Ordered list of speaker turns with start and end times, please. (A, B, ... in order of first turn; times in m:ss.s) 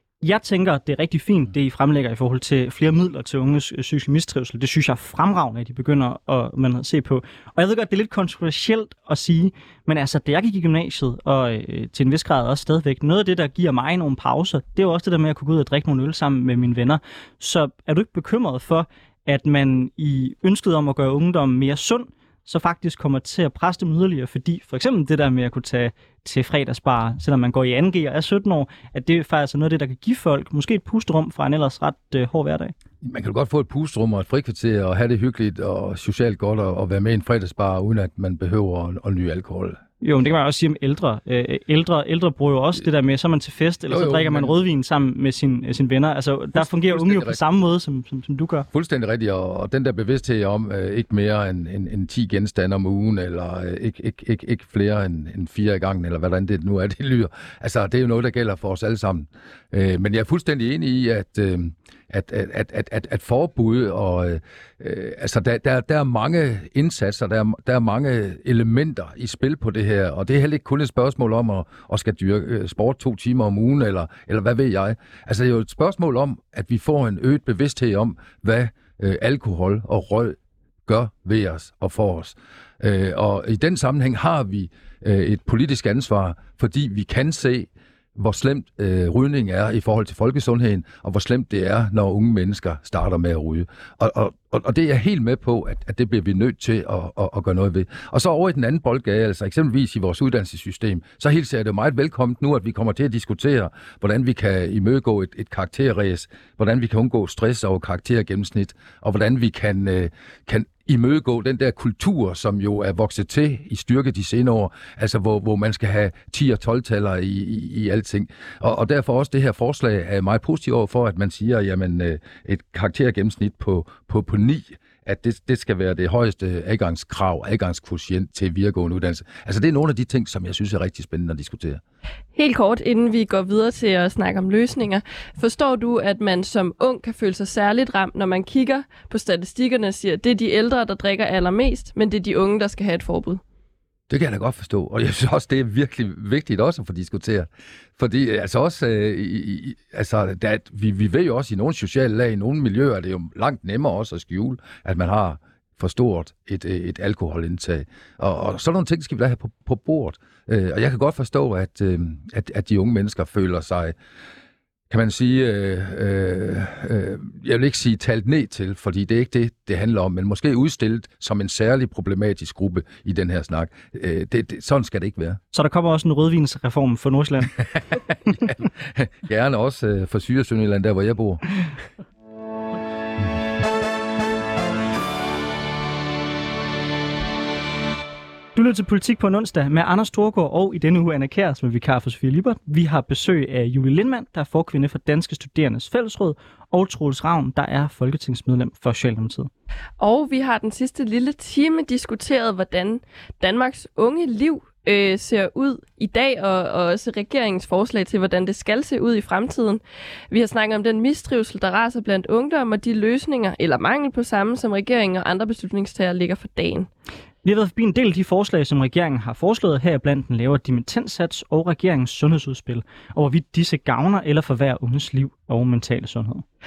0:00.2-0:32.7 A
0:33.0-0:39.8 B
0:40.0-0:48.7 A
0:43.9-0:44.6 B
0:46.6-0:47.4 B
0:48.7-2:11.8 B
2:12.4-2:23.4 C
2:24.1-2:43.9 B
2:44.9-2:55.4 B
2:55.5-2:57.6 A
2:58.3-2:58.5 A
2:58.9-3:01.4 B
3:08.6-3:19.5 A
3:20.0-3:29.8 C
3:30.3-3:36.9 C
3:37.4-3:46.4 A